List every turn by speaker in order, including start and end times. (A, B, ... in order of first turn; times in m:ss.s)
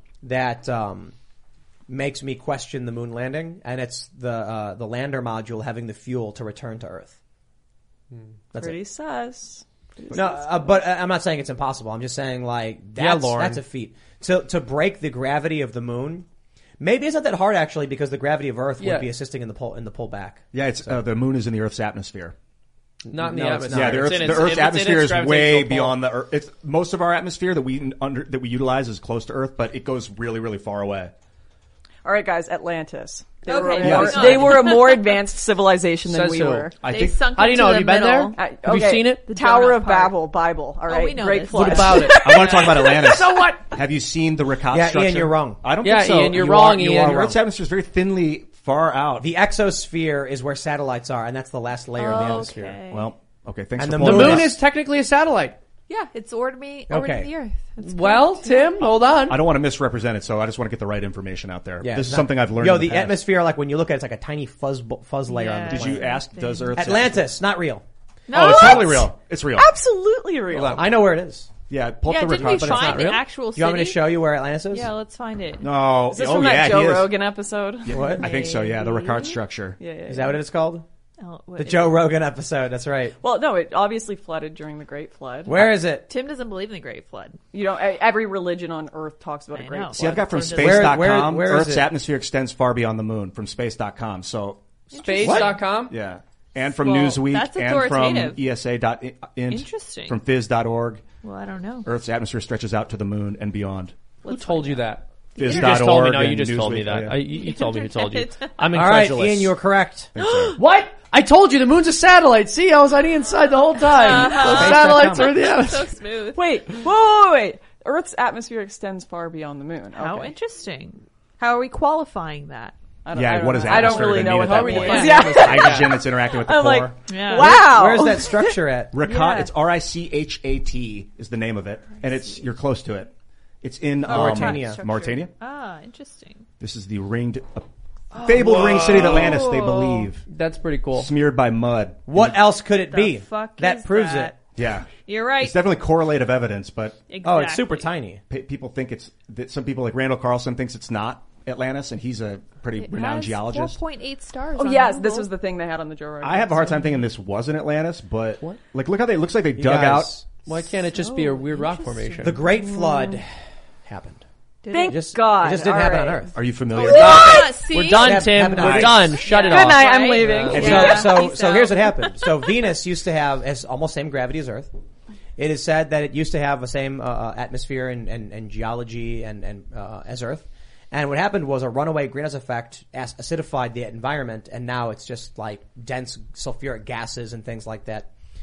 0:00.2-0:01.1 A
0:01.9-0:07.2 A
0:08.6-0:10.8 B
0:10.1-0:16.3 A
0:13.0-0:13.6 C
0:16.8-0:20.5 A
0:18.8-0:19.1 C
0:20.5-0:22.4 D
0:23.0-0:24.7 A
0:23.1-0:26.0 C
0:23.7-0:31.1 D
0:32.0-0:36.7 B
0:33.4-0:35.0 E
0:33.8-0:34.7 D
0:36.1-0:36.7 C
0:36.8-0:37.3 D
0:36.8-0:38.4 E
0:37.3-0:39.2 C
0:38.3-0:42.2 B
0:39.3-0:40.2 E
0:40.9-0:43.1 E
0:41.5-0:43.6 C
0:42.1-0:49.3 D
0:44.7-0:45.6 A
0:45.8-0:47.4 C
0:49.2-0:52.8 A
0:52.0-0:53.1 E
0:52.9-0:54.6 D
0:53.8-0:54.6 A
0:54.0-0:55.6 C
0:55.9-0:58.9 E
0:56.9-0:57.3 A
0:57.8-0:59.5 C
0:59.3-1:03.2 D
1:01.8-1:06.1 A
1:05.3-1:06.8 E
1:05.7-1:07.4 D
1:06.8-1:07.8 A
1:08.3-1:09.1 E
1:08.3-1:09.7 D
1:08.3-1:10.9 B
1:10.5-1:10.9 D
1:10.7-1:11.5 A
1:11.7-1:13.2 D
1:12.0-1:15.7 E
1:12.3-1:14.9 A
1:15.6-1:17.1 D
1:16.1-1:18.2 B
1:17.8-1:19.8 D
1:17.9-1:18.3 A
1:18.2-1:19.4 E
1:19.8-1:20.4 B
1:20.1-1:20.8 A
1:21.2-1:22.1 E
1:21.6-1:23.2 A
1:23.2-1:25.6 B
1:25.5-1:26.1 A
1:26.0-1:27.4 E
1:27.5-1:30.4 B
1:29.5-1:31.1 E
1:29.9-1:34.6 D
1:30.5-1:31.9 A
1:34.9-1:35.4 E
1:34.9-1:36.0 C
1:35.2-1:41.1 D
1:35.2-1:35.6 A
1:36.8-1:38.4 E
1:39.5-1:40.2 E
1:41.2-1:41.9 E
1:41.9-1:44.0 D
1:44.2-1:44.8 E
1:44.2-1:49.6 C
1:45.4-1:47.2 D
1:47.3-1:48.5 E
1:48.7-1:50.1 A
1:50.2-1:50.6 D
1:50.2-1:50.6 E
1:50.6-1:55.9 C
1:53.9-1:56.4 E
1:54.1-1:55.4 A
1:56.3-2:00.4 B
2:00.0-2:02.8 E
2:03.0-2:08.6 B
2:03.1-2:07.0 D
2:03.7-2:06.0 C
2:04.8-2:05.4 E
2:07.1-2:07.7 E
2:07.3-2:09.0 A
2:08.9-2:13.1 D
2:09.0-2:09.5 E
2:13.6-2:15.3 D
2:14.1-2:14.8 A
2:14.1-2:16.4 E
2:16.6-2:20.2 D
2:18.1-2:20.1 E
2:18.2-2:19.4 A
2:18.5-2:19.3 C
2:20.3-2:21.1 C
2:20.9-2:22.4 D
2:22.1-2:24.4 A
2:22.9-2:24.4 E
2:24.6-2:27.0 D
2:24.9-2:25.6 E
2:27.1-2:27.9 E
2:27.2-2:28.2 A
2:28.3-2:33.8 D
2:32.8-2:35.3 E
2:34.6-2:36.9 B
2:36.2-2:40.1 D
2:39.6-2:40.3 A
2:40.4-2:42.4 C
2:40.9-2:42.7 E
2:42.2-2:43.3 A
2:42.6-2:43.2 B
2:43.8-2:44.2 A
2:44.6-2:45.0 E
2:44.7-2:46.2 B
2:44.8-2:46.4 A
2:46.4-2:47.5 D
2:46.8-2:48.5 E
2:46.8-2:50.9 C
2:48.0-2:49.2 A
2:48.5-2:49.2 D
2:49.1-2:52.2 E
2:49.2-2:51.3 B
2:50.4-2:54.7 A
2:50.4-2:51.0 D
2:55.4-3:08.1 A